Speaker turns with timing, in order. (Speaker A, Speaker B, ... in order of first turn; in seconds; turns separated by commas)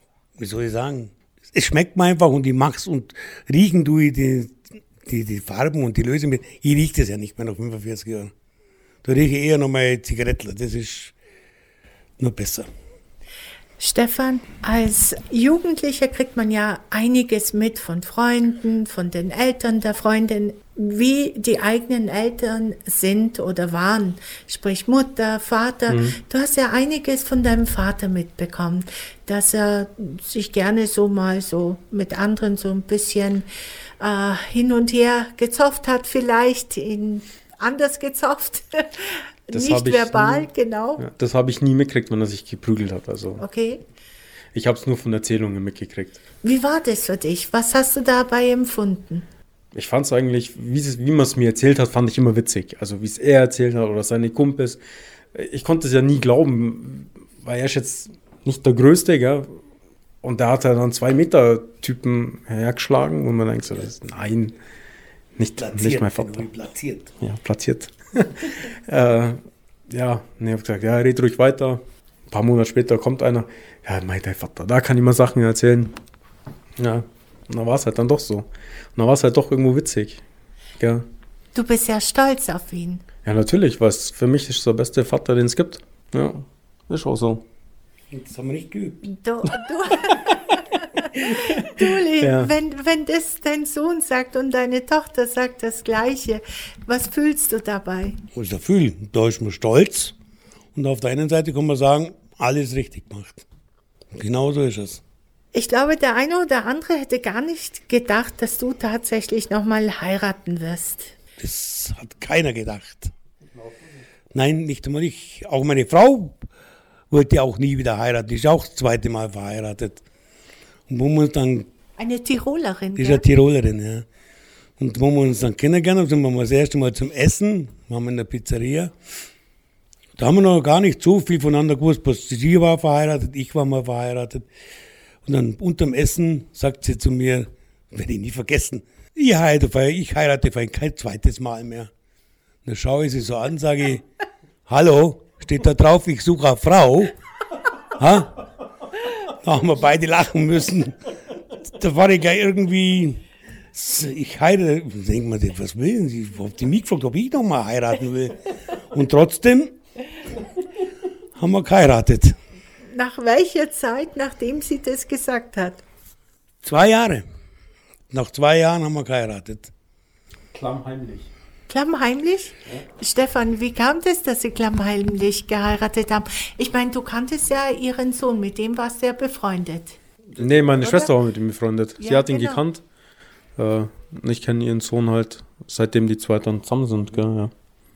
Speaker A: 0.4-8.3, Speaker A: 9.0-11.1, Speaker A: 12.2-12.7, Speaker B: 13.8-33.5, Speaker C: 25.9-26.2, Speaker B: 34.0-41.0, Speaker C: 39.5-43.4, Speaker B: 43.4-43.8, Speaker C: 44.5-46.2, Speaker B: 46.4-49.2, Speaker C: 49.7-54.8, Speaker C: 55.3-59.6, Speaker C: 60.2-64.5, Speaker C: 65.3-66.5, Speaker A: 65.6-67.1, Speaker C: 67.2-76.0, Speaker C: 76.8-80.2, Speaker C: 80.8-81.0, Speaker B: 81.5-83.0, Speaker C: 83.2-87.4, Speaker A: 88.1-89.1, Speaker B: 89.0-98.2, Speaker C: 91.3-92.5, Speaker A: 98.3-100.1, Speaker A: 100.7-103.4, Speaker A: 104.1-105.0, Speaker B: 105.5-111.1, Speaker A: 111.4-113.1, Speaker C: 113.5-114.0, Speaker A: 114.3-116.4, Speaker A: 117.1-120.0, Speaker A: 120.9-121.7, Speaker B: 122.0-123.2, Speaker A: 123.0-124.0, Speaker A: 124.8-128.9, Speaker A: 130.2-134.4, Speaker A: 135.2-141.9, Speaker A: 142.6-144.0, Speaker A: 144.7-147.1, Speaker A: 147.9-148.4, Speaker A: 149.4-151.0, Speaker A: 151.7-153.2, Speaker A: 153.7-158.4, Speaker A: 158.9-159.7, Speaker A: 161.4-162.3, Speaker B: 162.9-165.8, Speaker A: 166.6-167.2, Speaker A: 168.1-169.7, Speaker C: 170.5-171.3, Speaker B: 171.7-180.0, Speaker C: 180.3-182.8, Speaker B: 180.8-181.1, Speaker B: 182.0-182.6, Speaker C: 183.6-187.5